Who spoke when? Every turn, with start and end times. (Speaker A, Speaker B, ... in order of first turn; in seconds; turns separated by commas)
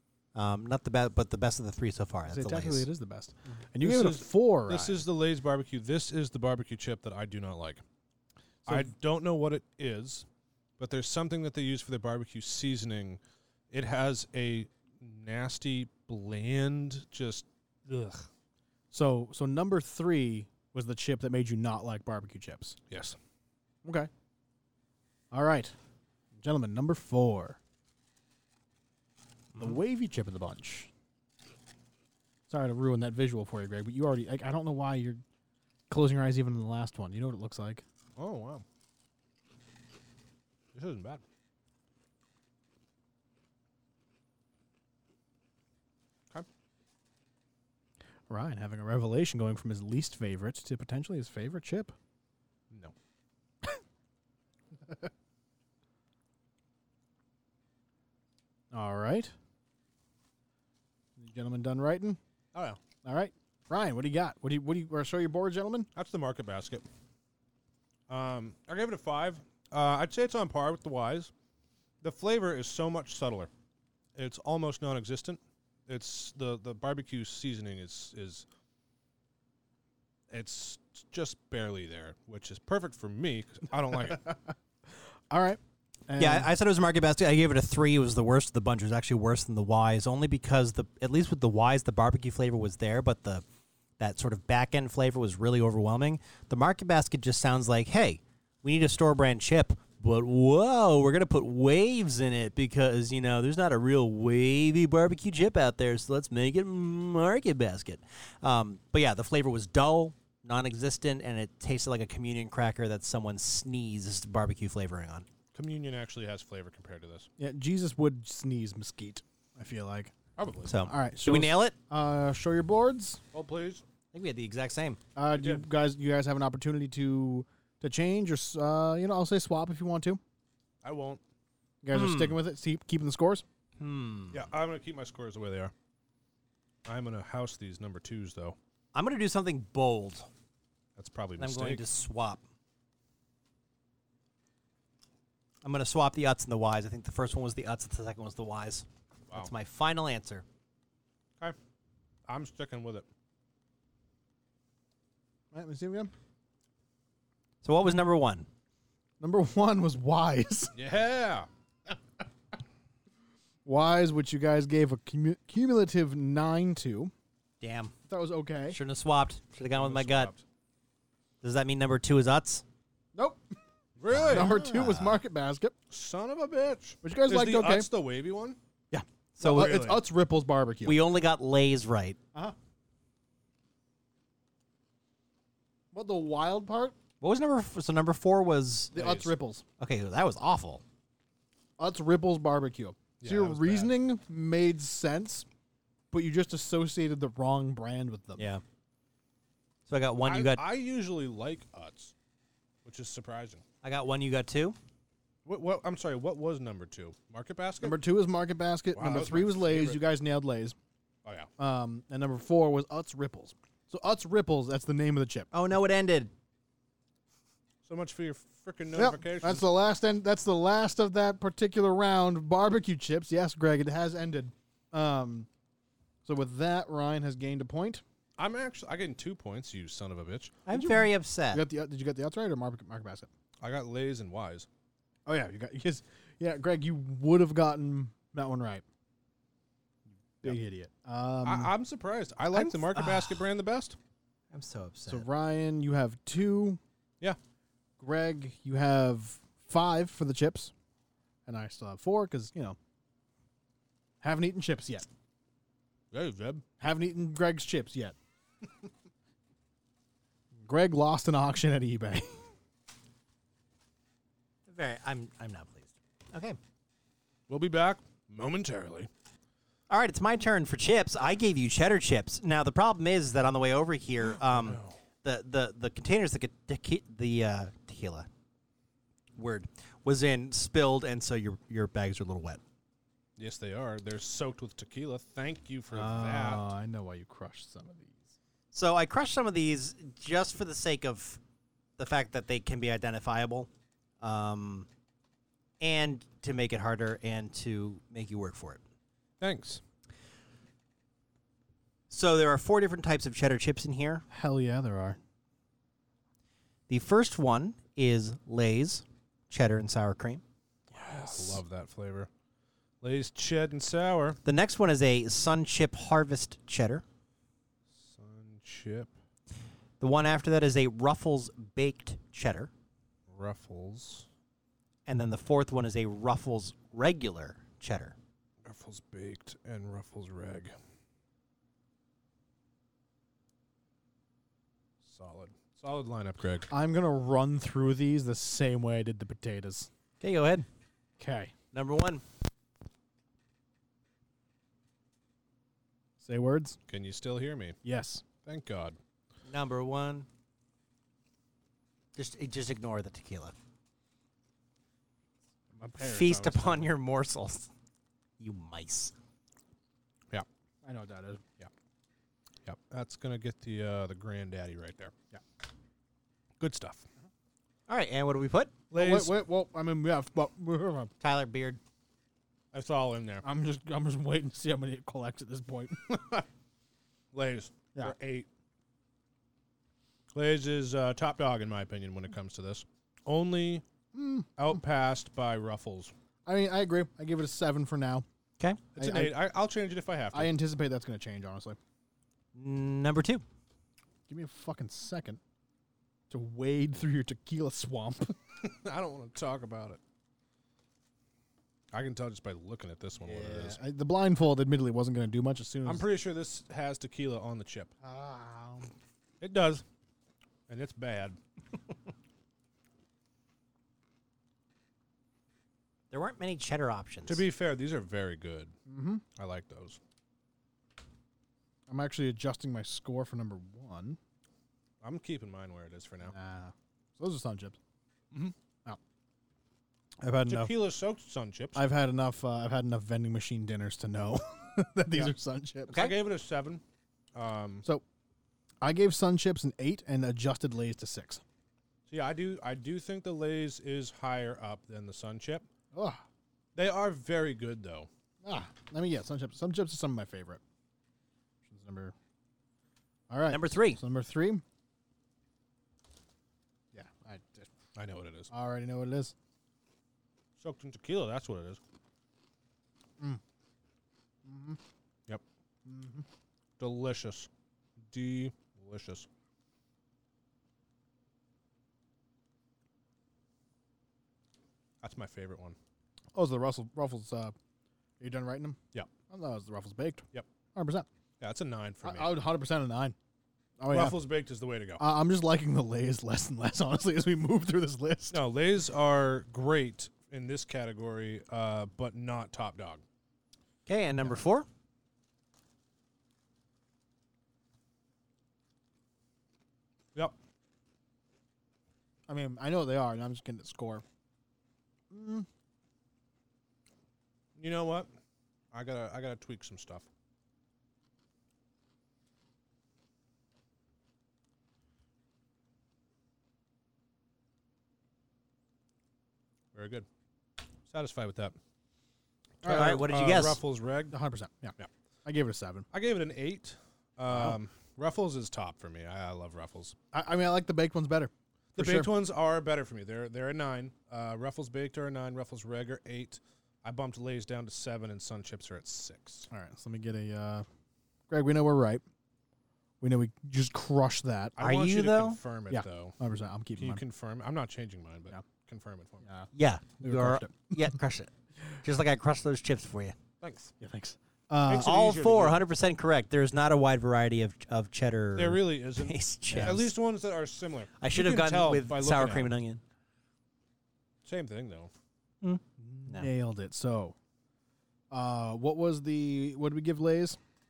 Speaker A: 0.3-2.9, Speaker B: 2.3-5.0, Speaker C: 3.8-7.8, Speaker C: 8.7-10.3, Speaker C: 10.8-13.2, Speaker C: 13.7-18.3, Speaker B: 18.9-22.8, Speaker C: 22.9-23.2, Speaker B: 23.8-24.1, Speaker B: 25.3-25.8, Speaker B: 26.4-27.6, Speaker B: 29.6-30.9, Speaker B: 32.5-35.2, Speaker B: 35.9-37.8, Speaker C: 38.2-38.6, Speaker C: 40.7-41.2, Speaker B: 48.3-51.9, Speaker B: 58.7-59.3, Speaker B: 61.2-62.2, Speaker C: 62.5-62.8, Speaker B: 63.0-65.9, Speaker C: 66.0-66.8, Speaker C: 68.1-71.3, Speaker C: 72.0-73.5, Speaker C: 74.2-78.5, Speaker C: 80.3-84.2, Speaker B: 84.0-84.5, Speaker B: 85.3-86.5, Speaker A: 86.2-93.4, Speaker A: 94.0-115.3, Speaker C: 115.5-117.3, Speaker B: 117.4-120.1, Speaker C: 120.4-120.7, Speaker A: 120.7-121.8, Speaker B: 120.8-123.2, Speaker C: 123.3-123.8, Speaker A: 124.1-125.0, Speaker B: 125.2-130.2, Speaker C: 125.3-125.7, Speaker C: 130.8-131.2, Speaker B: 131.8-133.4, Speaker A: 131.9-132.4, Speaker A: 133.8-134.5, Speaker C: 134.3-135.7, Speaker C: 136.8-138.6, Speaker A: 138.9-140.3, Speaker C: 141.0-141.8, Speaker A: 141.4-142.4, Speaker A: 145.6-150.4, Speaker C: 152.3-153.1, Speaker B: 155.5-156.1, Speaker A: 157.6-158.5, Speaker B: 159.2-160.8, Speaker C: 160.8-161.5, Speaker B: 163.7-167.1, Speaker A: 167.6-167.9, Speaker B: 168.1-168.8, Speaker A: 168.7-170.3, Speaker C: 169.7-170.4, Speaker A: 171.4-172.6, Speaker B: 173.2-173.6, Speaker C: 174.0-174.6, Speaker A: 174.1-175.2, Speaker B: 174.3-175.7, Speaker C: 175.9-178.6, Speaker B: 177.0-177.9, Speaker B: 178.9-181.0, Speaker A: 179.4-180.0, Speaker C: 179.4-180.0, Speaker A: 180.8-182.2, Speaker B: 185.9-186.9, Speaker A: 187.2-188.9, Speaker B: 188.9-189.6, Speaker C: 188.9-189.3, Speaker A: 189.8-190.8, Speaker B: 191.8-195.5, Speaker C: 193.2-193.9, Speaker B: 196.1-198.5, Speaker A: 199.9-200.7, Speaker C: 200.2-202.1, Speaker C: 202.8-203.6, Speaker A: 203.8-204.8, Speaker C: 205.4-208.0, Speaker B: 207.8-210.8, Speaker C: 208.9-210.0, Speaker C: 211.2-211.5, Speaker B: 211.6-215.5, Speaker A: 215.5-216.3, Speaker C: 217.8-219.7, Speaker B: 218.9-225.5, Speaker B: 226.2-228.0, Speaker C: 228.4-230.6, Speaker A: 230.7-231.6, Speaker B: 230.7-233.3, Speaker C: 233.6-234.7, Speaker B: 235.3-238.8, Speaker B: 240.4-241.7, Speaker C: 241.4-244.0, Speaker A: 242.5-243.4, Speaker A: 244.5-245.3, Speaker B: 245.1-246.8, Speaker B: 248.0-250.7, Speaker B: 251.5-252.8, Speaker B: 254.2-255.1, Speaker C: 256.1-256.6, Speaker B: 256.8-258.2, Speaker B: 260.6-262.5, Speaker A: 264.7-266.6, Speaker C: 267.5-269.1, Speaker A: 269.9-278.3, Speaker C: 274.4-275.0, Speaker A: 279.4-282.6, Speaker C: 283.4-286.6, Speaker B: 285.9-288.3, Speaker A: 288.7-291.4, Speaker A: 292.0-293.7, Speaker A: 294.2-294.9, Speaker A: 295.8-298.8, Speaker C: 299.4-299.8, Speaker A: 302.1-304.2, Speaker B: 304.3-305.2, Speaker A: 306.9-310.4, Speaker C: 310.9-312.3, Speaker B: 311.1-311.6, Speaker C: 313.0-314.4, Speaker A: 314.4-317.0, Speaker C: 317.9-319.1, Speaker A: 320.0-322.7, Speaker C: 323.3-324.3, Speaker A: 325.1-328.2, Speaker C: 328.6-330.8, Speaker C: 335.0-336.7, Speaker B: 336.7-339.9, Speaker A: 340.2-340.7, Speaker B: 341.2-341.5, Speaker A: 341.7-342.2, Speaker B: 346.2-346.8, Speaker C: 346.9-347.8, Speaker B: 347.8-348.2, Speaker C: 348.4-349.0, Speaker A: 349.5-350.3, Speaker A: 352.2-353.5, Speaker B: 355.8-356.9, Speaker A: 356.0-357.7, Speaker A: 358.4-359.1, Speaker B: 360.8-361.4, Speaker C: 362.6-365.1, Speaker C: 366.6-367.1, Speaker A: 367.9-368.8, Speaker C: 368.9-369.4, Speaker B: 368.9-371.1, Speaker A: 371.2-371.8, Speaker C: 372.7-373.4, Speaker B: 373.4-376.3, Speaker C: 376.1-376.4, Speaker C: 377.3-378.5, Speaker C: 380.3-383.8, Speaker B: 384.1-384.8, Speaker C: 384.6-386.1, Speaker B: 386.5-388.2, Speaker C: 389.0-390.5, Speaker B: 389.0-389.4, Speaker B: 390.3-391.8, Speaker A: 392.6-393.4, Speaker B: 394.3-395.4, Speaker B: 396.3-398.4, Speaker C: 398.6-400.0, Speaker C: 401.9-403.8, Speaker B: 403.2-406.1, Speaker C: 405.9-407.9, Speaker B: 408.0-408.9, Speaker C: 409.4-409.8, Speaker C: 410.7-411.4, Speaker A: 416.1-417.5, Speaker C: 417.3-418.7, Speaker B: 418.9-419.2, Speaker C: 419.4-420.0, Speaker B: 421.9-424.2, Speaker C: 425.0-426.3, Speaker B: 426.2-427.8, Speaker B: 430.2-430.8, Speaker C: 430.5-431.8, Speaker B: 431.8-436.1, Speaker A: 435.9-436.1, Speaker C: 435.9-436.8, Speaker C: 437.3-437.9, Speaker B: 438.8-441.4, Speaker C: 442.1-445.6, Speaker B: 445.9-446.2, Speaker C: 446.8-448.1, Speaker B: 448.4-450.6, Speaker B: 451.7-452.1, Speaker B: 453.3-454.6, Speaker A: 453.5-454.0, Speaker B: 456.9-457.7, Speaker C: 457.9-458.5, Speaker B: 458.5-459.4, Speaker C: 460.6-461.8, Speaker B: 464.5-464.8, Speaker B: 465.9-466.3, Speaker C: 466.8-467.5, Speaker C: 468.1-469.3, Speaker C: 475.0-475.8, Speaker B: 476.3-477.6, Speaker B: 478.2-481.1, Speaker C: 481.4-482.4, Speaker B: 482.0-483.2, Speaker B: 483.8-484.2, Speaker C: 483.9-485.0, Speaker B: 485.0-488.4, Speaker C: 488.3-493.0, Speaker A: 493.9-494.7, Speaker B: 502.3-504.1, Speaker B: 505.1-505.5, Speaker C: 507.6-508.1, Speaker C: 508.7-510.1, Speaker C: 519.7-520.1, Speaker C: 520.9-521.6, Speaker C: 522.6-524.1, Speaker A: 522.6-523.6, Speaker B: 522.6-522.9, Speaker B: 524.1-525.9, Speaker C: 525.9-530.0, Speaker B: 527.3-527.6, Speaker B: 530.1-532.1, Speaker C: 531.8-539.5, Speaker B: 539.5-540.7, Speaker B: 541.3-542.0, Speaker B: 543.0-544.6, Speaker C: 544.6-546.1, Speaker A: 544.6-545.4, Speaker B: 545.7-547.0, Speaker C: 546.8-549.2, Speaker B: 549.2-549.5, Speaker A: 549.5-551.3, Speaker B: 550.0-550.8, Speaker A: 551.8-553.2, Speaker C: 553.4-553.7, Speaker B: 553.8-555.0, Speaker C: 554.7-555.6, Speaker A: 554.7-559.9, Speaker C: 558.4-562.5, Speaker B: 559.5-559.9, Speaker A: 561.0-562.8, Speaker C: 564.2-564.9, Speaker A: 565.4-566.3, Speaker B: 565.8-567.2, Speaker B: 568.1-570.4